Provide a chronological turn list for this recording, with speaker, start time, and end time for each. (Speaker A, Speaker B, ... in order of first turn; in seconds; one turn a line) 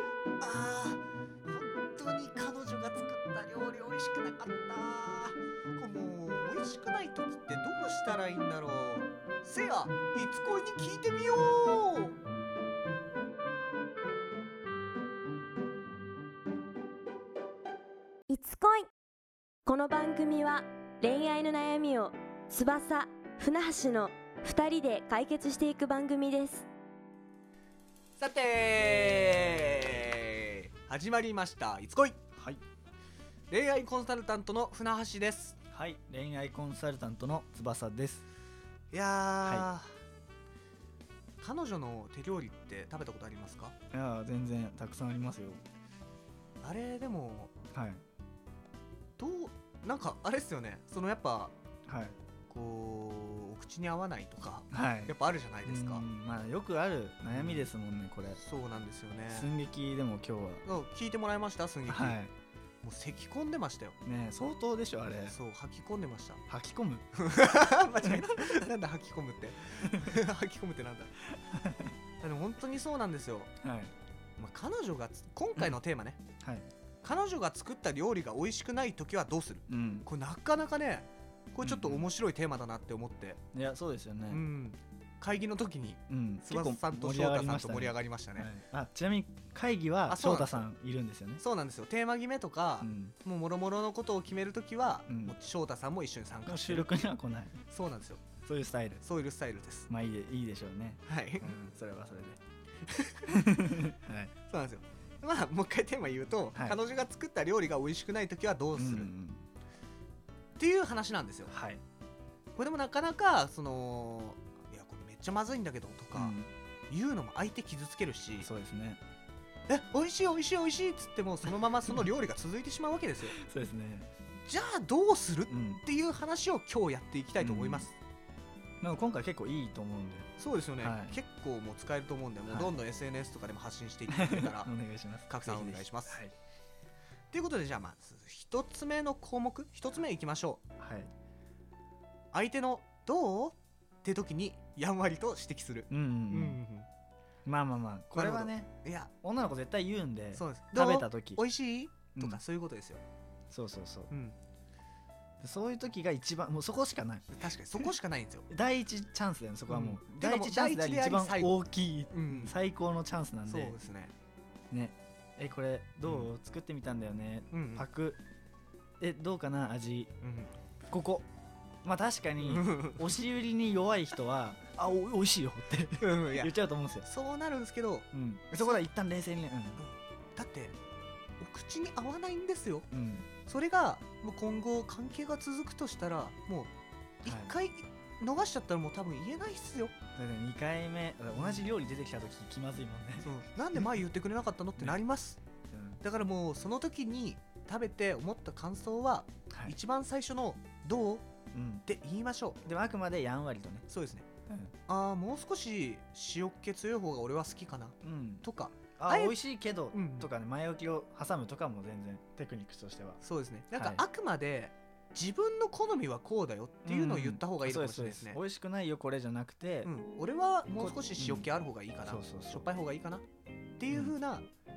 Speaker A: 0.4-12.2
Speaker B: 18.3-18.9
Speaker B: 19.7-26.7
Speaker A: 28.2-32.2
Speaker A: 33.5-35.6
Speaker C: 35.7-38.2
Speaker A: 38.9-39.9
Speaker C: 39.4-39.7
Speaker A: 41.4-43.8
Speaker C: 43.9-45.6
Speaker A: 46.6-47.5
Speaker C: 47.7-48.0
Speaker A: 49.2-51.5
Speaker C: 51.9-52.2
Speaker A: 52.5-56.1
Speaker C: 54.7-58.4
Speaker A: 57.3-57.7
Speaker A: 58.4-59.5
Speaker C: 59.3-60.6
Speaker A: 60.6-62.2
Speaker C: 61.9-62.3
Speaker A: 62.8-64.0
Speaker C: 64.0-65.4
Speaker A: 65.3-66.4
Speaker C: 66.5-67.1
Speaker A: 67.1-71.2
Speaker C: 69.9-70.1
Speaker C: 71.3-71.9
Speaker A: 72.2-73.5
Speaker C: 73.6-73.9
Speaker A: 74.4-76.2
Speaker A: 77.0-83.4
Speaker C: 79.7-80.1
Speaker C: 81.6-82.1
Speaker C: 83.5-84.4
Speaker A: 84.3-88.5
Speaker C: 86.1-91.4
Speaker A: 90.1-90.7
Speaker A: 91.4-96.9
Speaker C: 92.8-93.2
Speaker C: 95.1-95.4
Speaker C: 96.5-97.6
Speaker A: 97.7-98.2
Speaker C: 98.5-99.0
Speaker A: 99.0-99.9
Speaker C: 99.9-102.4
Speaker A: 101.1-101.5
Speaker A: 102.8-103.3
Speaker C: 103.3-104.3
Speaker A: 104.5-109.1
Speaker C: 108.8-109.5
Speaker A: 110.6-111.5
Speaker C: 111.5-111.8
Speaker A: 112.5-116.4
Speaker C: 116.1-116.5
Speaker A: 116.9-118.5
Speaker C: 118.4-119.0
Speaker A: 119.7-123.4
Speaker C: 123.3-124.1
Speaker A: 124.5-128.0
Speaker C: 125.5-125.8
Speaker C: 127.4-127.9
Speaker C: 128.8-131.2
Speaker A: 130.4-134.7
Speaker C: 132.5-132.7
Speaker C: 134.1-136.3
Speaker A: 135.3-136.2
Speaker A: 137.3-140.6
Speaker C: 140.8-141.1
Speaker A: 142.3-146.9
Speaker C: 145.9-146.6
Speaker C: 147.5-151.4
Speaker A: 148.1-149.1
Speaker A: 150.3-153.0
Speaker C: 152.2-152.4
Speaker C: 153.5-154.1
Speaker A: 154.1-154.4
Speaker C: 155.4-157.3
Speaker A: 157.3-158.5
Speaker C: 158.5-163.8
Speaker A: 159.7-161.6
Speaker A: 162.1-162.6
Speaker A: 163.5-164.1
Speaker C: 164.7-168.2
Speaker A: 166.0-166.3
Speaker A: 167.5-167.9
Speaker C: 169.0-170.1
Speaker A: 170.2-170.5
Speaker C: 170.9-171.3
Speaker C: 171.8-177.1
Speaker A: 172.4-173.2
Speaker A: 176.0-178.8
Speaker C: 178.1-179.8
Speaker A: 179.8-180.8
Speaker A: 181.4-182.9
Speaker C: 182.9-183.3
Speaker A: 183.4-189.9
Speaker C: 187.3-187.5
Speaker C: 190.2-193.3
Speaker A: 191.3-191.7
Speaker A: 193.2-195.4
Speaker C: 195.7-196.0
Speaker A: 196.0-201.3
Speaker C: 201.5-201.8
Speaker A: 201.8-202.6
Speaker C: 202.7-203.9
Speaker A: 203.9-204.3
Speaker A: 204.9-209.4
Speaker C: 208.0-213.2
Speaker A: 209.9-210.3
Speaker A: 213.2-218.4
Speaker C: 213.7-214.0
Speaker C: 216.8-219.9
Speaker A: 219.8-223.2
Speaker C: 220.7-221.5
Speaker C: 222.0-222.7
Speaker A: 223.8-224.5